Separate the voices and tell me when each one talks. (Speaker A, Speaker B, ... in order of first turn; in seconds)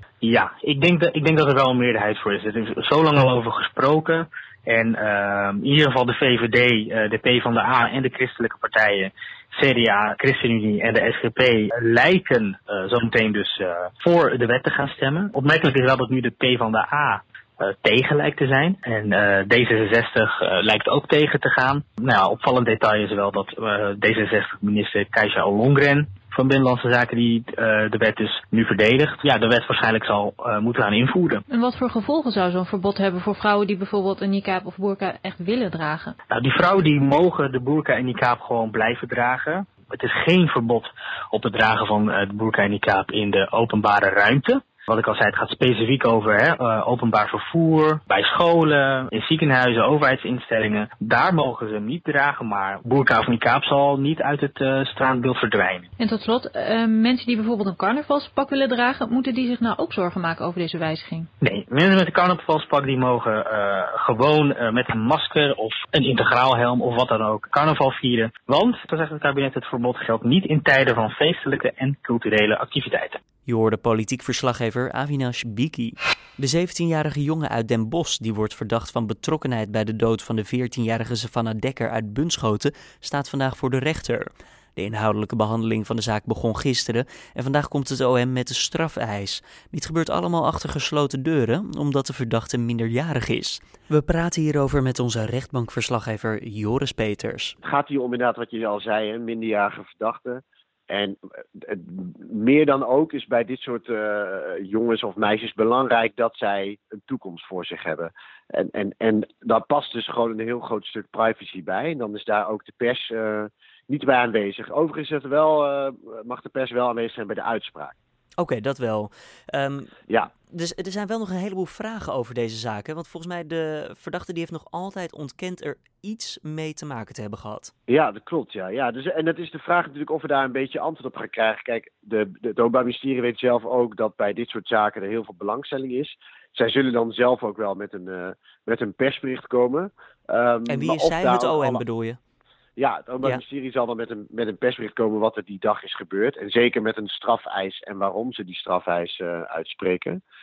Speaker A: 0.2-31.4, 36.3-55.9, 61.4-73.2
Speaker B: 31.5-36.1, 56.0-61.3
Speaker C: 73.5-97.5, 118.4-127.7, 140.7-142.2
Speaker D: 97.6-117.9, 127.9-141.8, 142.8-150.2